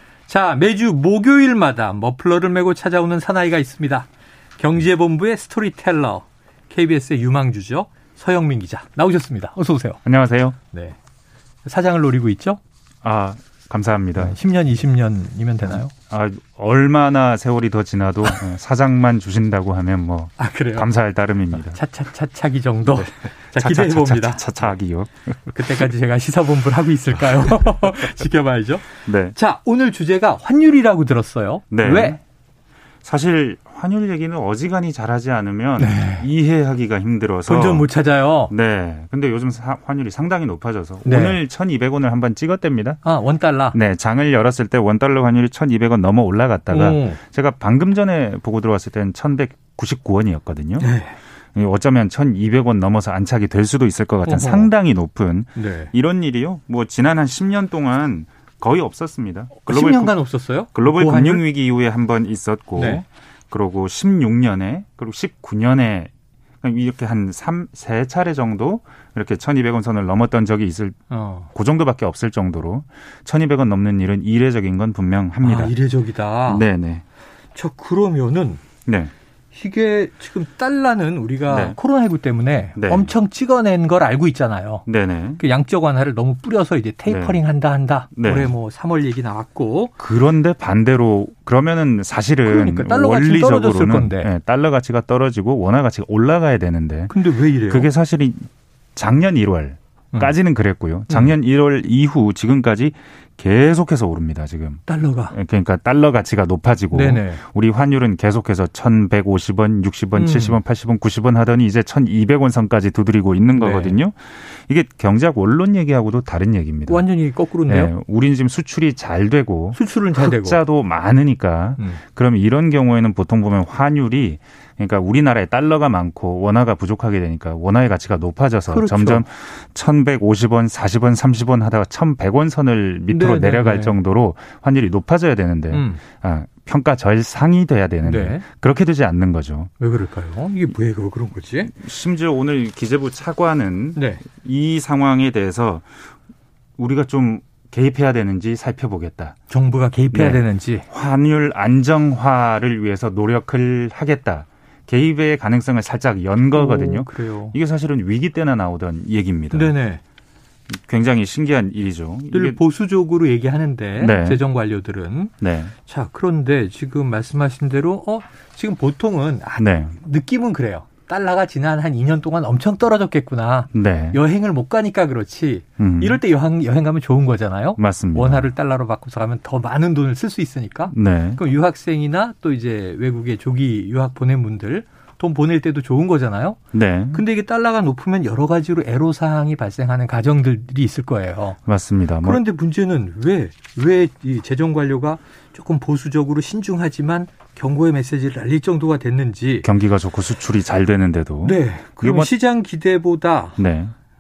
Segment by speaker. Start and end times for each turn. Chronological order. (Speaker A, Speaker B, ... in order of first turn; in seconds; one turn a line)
Speaker A: 0.3-10.0
Speaker B: 10.1-10.6
Speaker A: 10.7-11.0
Speaker A: 11.6-12.6
Speaker B: 13.0-14.4
Speaker A: 14.2-15.9
Speaker B: 16.1-21.8
Speaker A: 20.4-20.9
Speaker A: 21.6-24.5
Speaker B: 22.9-25.6
Speaker A: 25.5-32.2
Speaker B: 29.1-29.4
Speaker B: 31.7-32.2
Speaker B: 33.0-37.9
Speaker A: 35.8-36.3
Speaker A: 37.5-38.5
Speaker B: 38.5-43.0
Speaker A: 41.0-41.4
Speaker A: 43.0-43.8
Speaker B: 43.7-50.9
Speaker A: 46.7-47.2
Speaker A: 50.8-51.2
Speaker B: 51.5-60.2
Speaker A: 54.2-54.7
Speaker A: 55.5-55.9
Speaker A: 59.6-61.5
Speaker B: 60.7-66.1
Speaker A: 62.8-63.0
Speaker B: 66.6-71.0
Speaker A: 71.1-71.5
Speaker B: 71.5-75.7
Speaker A: 75.4-76.7
Speaker B: 76.5-77.0
Speaker A: 77.5-78.6
Speaker B: 78.9-79.1
Speaker A: 79.5-84.8
Speaker B: 81.5-81.8
Speaker B: 82.8-83.1
Speaker B: 84.9-85.4
Speaker A: 85.4-89.9
Speaker B: 87.1-87.4
Speaker B: 88.2-88.5
Speaker B: 90.0-117.1
Speaker A: 92.5-94.3
Speaker A: 97.1-97.9
Speaker A: 101.1-101.3
Speaker A: 104.9-105.4
Speaker A: 106.9-107.4
Speaker A: 110.2-110.6
Speaker A: 113.5-114.0
Speaker A: 116.9-117.9
Speaker B: 117.7-139.7
Speaker A: 119.7-120.6
Speaker A: 128.7-129.2
Speaker A: 133.1-134.0
Speaker A: 135.7-136.0
Speaker A: 138.0-138.4
Speaker A: 139.8-141.8
Speaker B: 141.7-145.9
Speaker A: 144.0-144.2
Speaker B: 146.8-149.4
Speaker A: 149.5-150.9
Speaker B: 150.1-159.7
Speaker A: 156.6-157.6
Speaker A: 159.5-160.0
Speaker B: 160.7-162.6
Speaker A: 162.3-186.6
Speaker B: 164.0-164.4
Speaker B: 165.4-165.7
Speaker B: 169.6-170.0
Speaker B: 173.7-174.2
Speaker B: 175.8-176.2
Speaker B: 177.8-178.5
Speaker B: 180.9-181.4
Speaker B: 186.7-187.2
Speaker A: 187.1-191.6
Speaker B: 191.7-192.4
Speaker A: 192.2-199.7
Speaker B: 199.6-202.3
Speaker A: 201.4-203.6
Speaker B: 203.6-203.9